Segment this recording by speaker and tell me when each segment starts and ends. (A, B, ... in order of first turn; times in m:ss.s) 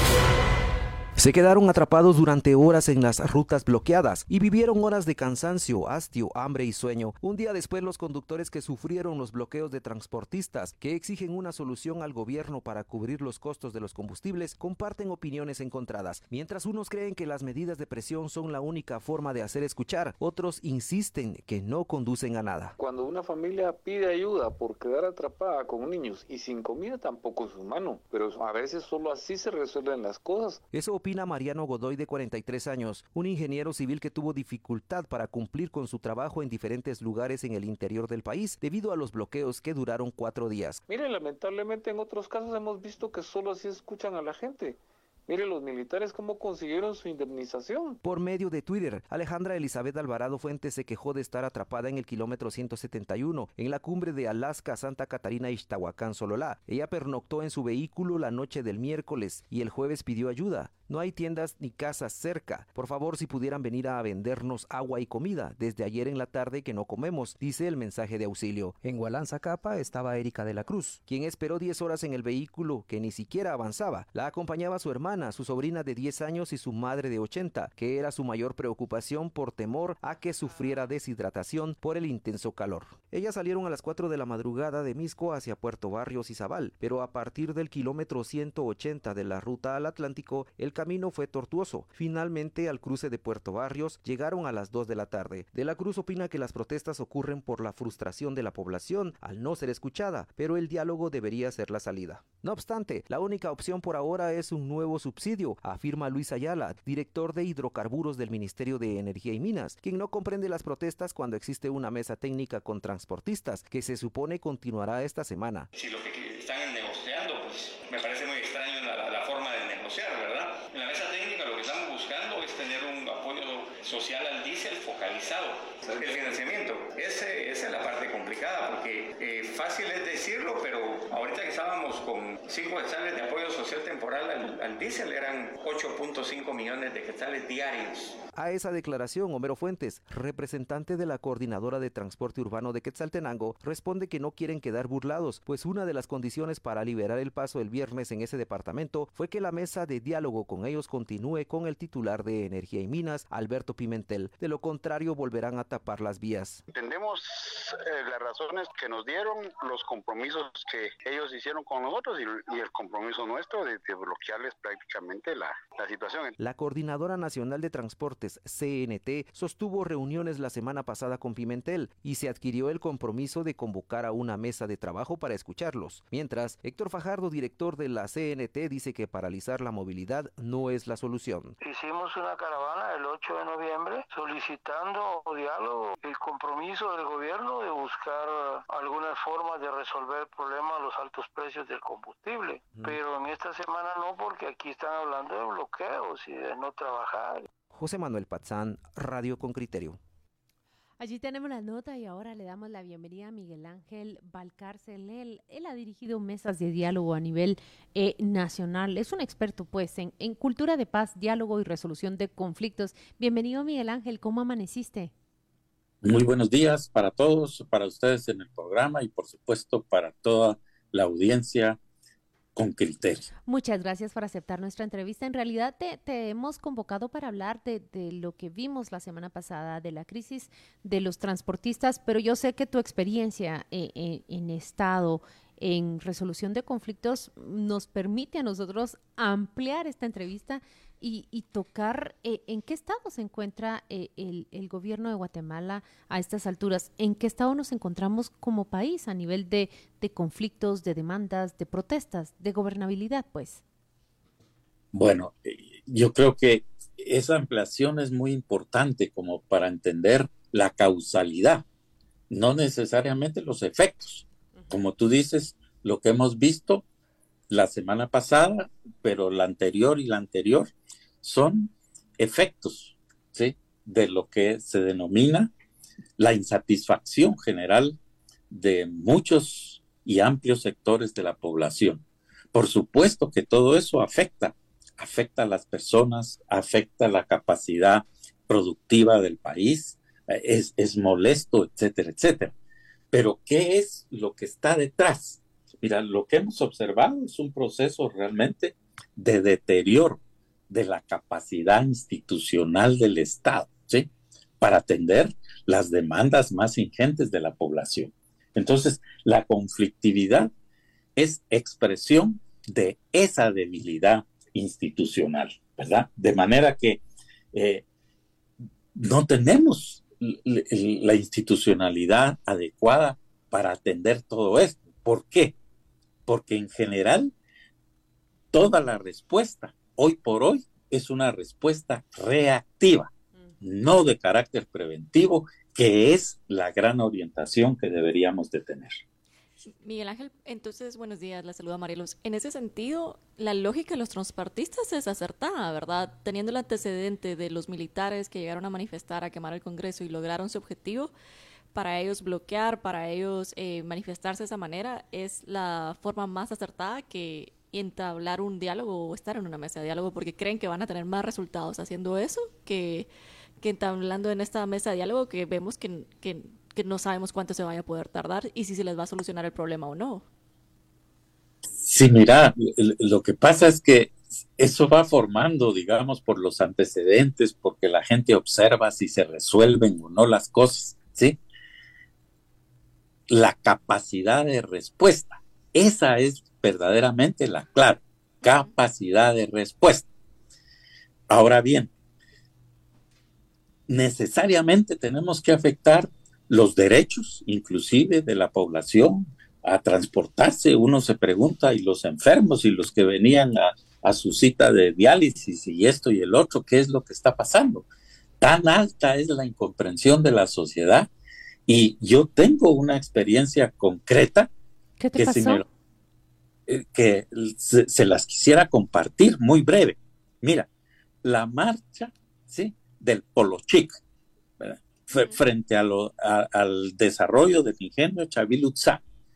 0:01.2-0:22.7 A
0:22.8-0:30.6 B
0:30.7-0:40.8 A
0:40.9-0:48.0 B
0:48.0-1:55.7 A
1:55.8-2:18.2 C
2:18.4-2:36.6 A
2:36.7-2:46.3 D
2:46.4-3:01.6 A
3:01.6-3:17.5 E
3:12.7-3:13.0 A
3:17.7-3:20.0 A
3:21.0-3:35.1 F
3:36.0-3:41.8 G
3:42.5-3:43.3 G
3:43.4-4:13.6 F
4:14.9-4:21.6 G
4:22.3-4:26.8 G
4:27.5-4:30.7 G
4:31.2-4:35.5 G
4:36.2-4:38.0 G
4:38.5-4:52.5 G
4:53.1-5:04.1 G
5:04.6-5:10.5 G
5:11.2-5:17.0 G
5:17.5-5:17.8 G
5:18.9-5:25.6 G
5:26.2-5:27.3 G
5:28.5-5:33.1 G
5:33.6-5:39.0 G
5:39.7-5:51.1 H
5:51.7-6:03.1 H
6:03.6-6:10.2 H
6:11.8-6:21.4 G
6:23.3-6:30.1 G
6:28.4-6:28.8 H
6:31.3-6:31.9 G
6:33.9-6:47.9 G
6:48.4-6:51.1 G
6:51.7-6:54.5 G
6:55.0-6:55.6 F
6:55.1-6:55.6 G
6:56.7-7:00.7 G
7:01.2-7:04.0 G
7:04.6-7:09.0 G
7:05.1-7:05.4 H